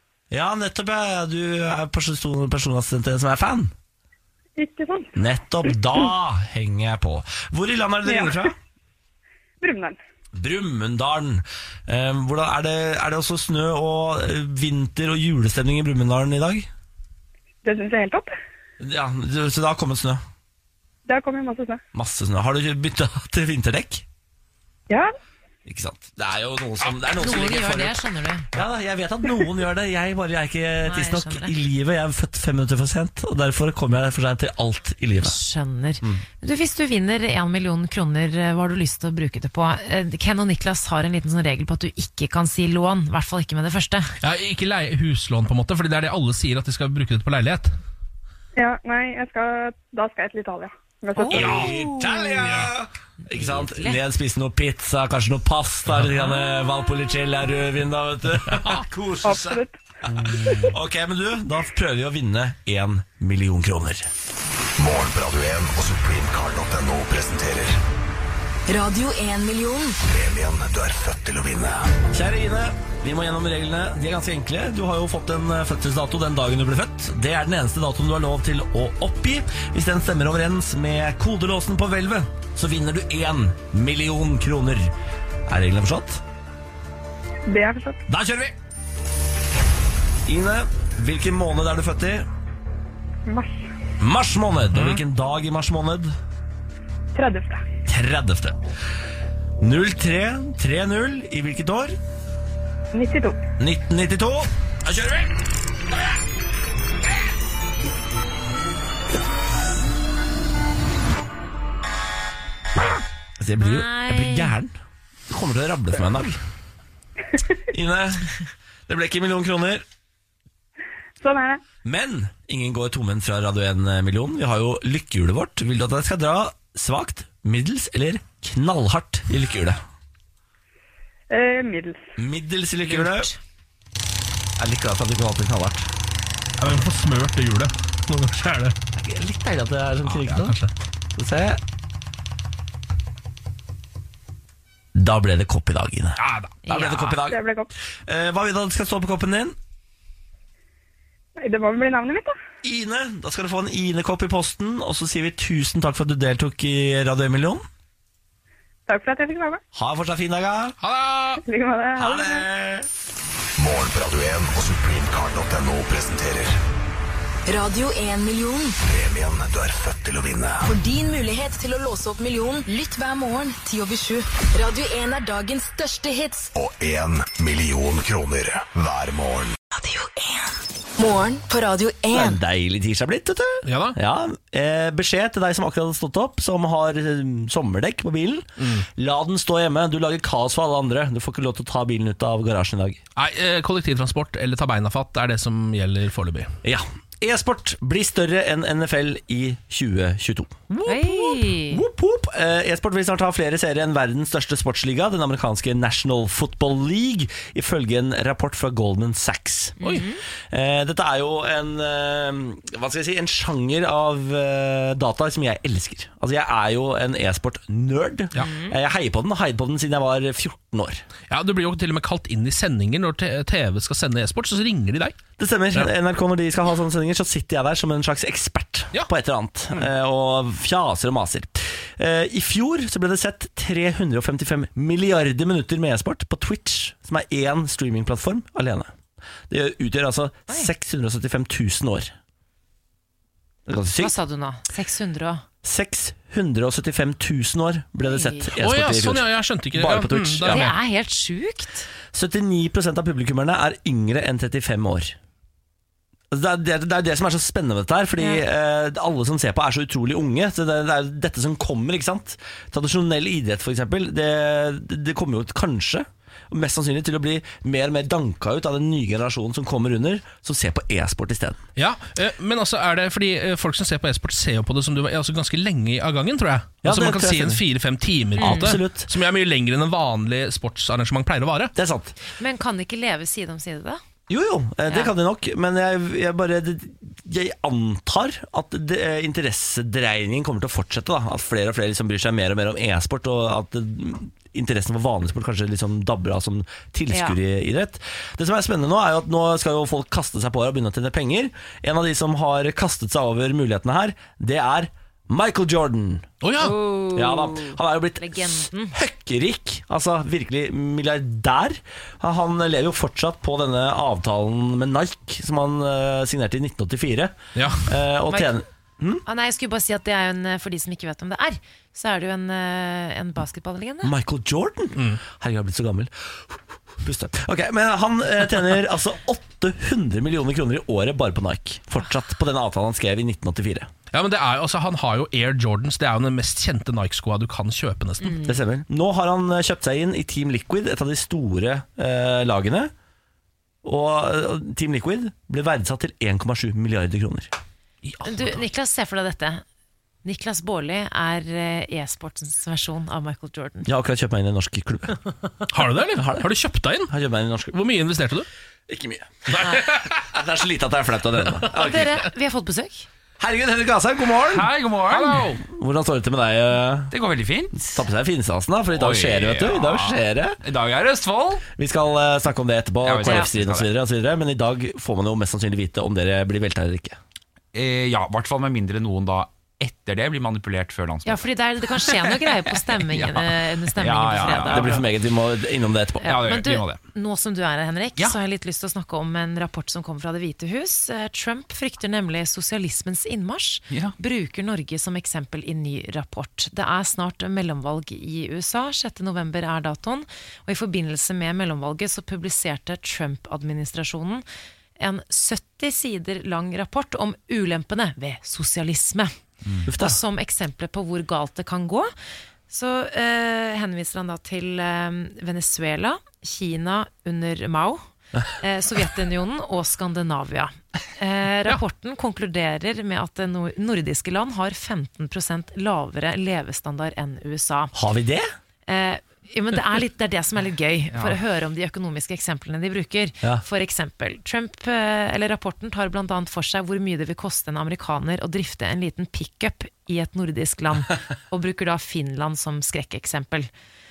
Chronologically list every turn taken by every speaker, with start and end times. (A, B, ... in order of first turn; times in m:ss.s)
0:00.3-0:03.7 A
0:04.6-0:05.1 B
0:05.2-0:08.5 A
0:08.0-0:08.4 B
0:09.6-0:10.0 B
0:10.3-0:16.7 A
0:17.6-0:18.3 B
0:18.8-0:20.2 A
0:21.1-0:21.8 B
0:21.9-0:24.0 A
0:25.6-0:35.4 A
0:27.1-0:28.5 C
0:30.8-0:31.5 C
0:35.2-0:44.1 C
0:44.2-0:47.7 D
0:48.6-0:51.6 B
0:51.2-0:52.4 C
0:51.3-1:04.1 A
0:53.3-0:54.0 C
0:59.2-0:59.8 B
1:04.8-1:07.8 E
1:08.7-1:10.0 F
1:10.0-1:12.0 E
1:12.1-1:24.9 A
1:25.5-1:26.2 A
1:27.5-1:28.0 B
1:28.1-1:28.5 A
1:30.2-1:32.2 A
1:33.3-1:33.7 B
1:34.0-1:36.1 A
1:34.7-1:35.0 D
1:37.1-1:37.6 B
1:37.9-1:38.6 A
1:39.6-1:42.0 A
1:42.9-1:43.4 B
1:43.6-1:45.3 A
1:53.4-1:54.8 A
1:53.6-1:54.5 C
1:55.3-1:56.4 A
1:57.7-1:58.4 A
1:58.9-1:59.8 A
2:01.2-2:01.6 B
2:01.8-2:09.8 A
2:11.3-2:12.0 B
2:12.2-2:13.3 A
2:12.9-2:13.3 C
2:14.6-2:15.9 A
2:16.6-2:18.8 D
2:19.0-2:20.6 A
2:20.1-2:20.7 D
2:21.1-2:21.6 A
2:24.9-2:27.4 A
2:26.6-2:27.0 C
2:27.3-2:27.7 B
2:28.0-2:29.6 A
2:31.4-2:32.3 B
2:32.6-2:37.6 A
2:38.9-2:39.6 B
2:39.7-2:40.8 A
2:40.8-2:41.4 D
2:41.4-2:42.4 B
2:42.0-2:42.9 A
2:43.6-2:46.6 E
2:47.5-2:48.8 F
2:48.8-2:50.7 E
2:50.6-2:56.5 F
2:56.5-2:59.5 E
2:59.7-3:02.4 F
3:02.1-3:13.0 A
3:03.6-3:04.0 D
3:08.6-3:08.9 D
3:13.2-3:16.5 D
3:16.6-3:41.0 A
3:20.9-3:21.8 C
3:29.8-3:30.2 C
3:38.4-3:38.7 C
3:41.3-3:45.2 D
3:45.4-3:58.9 A
3:59.5-4:02.1 A
4:03.6-4:04.1 A
4:04.0-4:05.4 C
4:05.6-4:10.7 A
4:08.0-4:08.5 C
4:08.6-4:10.7 D
4:10.5-4:11.9 C
4:12.1-4:15.2 A
4:16.3-4:31.6 A
4:18.2-4:18.4 C
4:31.8-4:41.7 D
4:36.8-4:37.6 A
4:38.4-4:38.7 C
4:38.4-4:39.1 A
4:41.7-4:42.2 A
4:42.3-4:44.0 C
4:44.3-5:06.3 A
4:57.1-4:57.4 C
5:06.4-5:06.9 D
5:06.6-5:09.0 C
5:07.1-5:19.2 A
5:17.6-5:17.8 D
5:18.3-5:18.6 C
5:19.2-5:24.1 C
5:24.0-5:33.9 A
5:34.1-5:38.4 D
5:38.2-5:38.5 C
5:38.4-5:42.9 A
5:43.8-5:47.5 A
5:48.0-5:48.5 D
5:48.2-5:49.6 C
5:50.2-5:53.9 C
5:53.8-5:55.2 A
5:55.7-5:57.1 D
5:56.1-5:56.5 A
5:57.1-5:57.8 A
5:57.7-5:58.5 D
5:58.9-6:02.2 A
6:01.7-6:03.1 C
6:03.4-6:07.1 A
6:04.5-6:05.5 G
6:05.2-6:05.5 D
6:07.1-6:08.0 G
6:07.9-6:10.6 A
6:08.9-6:11.7 G
6:11.7-6:17.2 A
6:13.0-6:13.9 G
6:13.2-6:13.5 C
6:17.7-6:25.0 G
6:21.2-6:25.0 C
6:24.4-6:26.4 A
6:26.2-6:44.4 C
6:26.2-6:27.0 G
6:33.9-6:34.1 G
6:45.0-6:49.3 C
6:49.9-6:50.2 A
6:49.9-6:52.1 C
6:52.7-6:58.0 C
6:58.6-7:07.9 C
7:07.9-7:08.5 A
7:08.9-7:23.7 C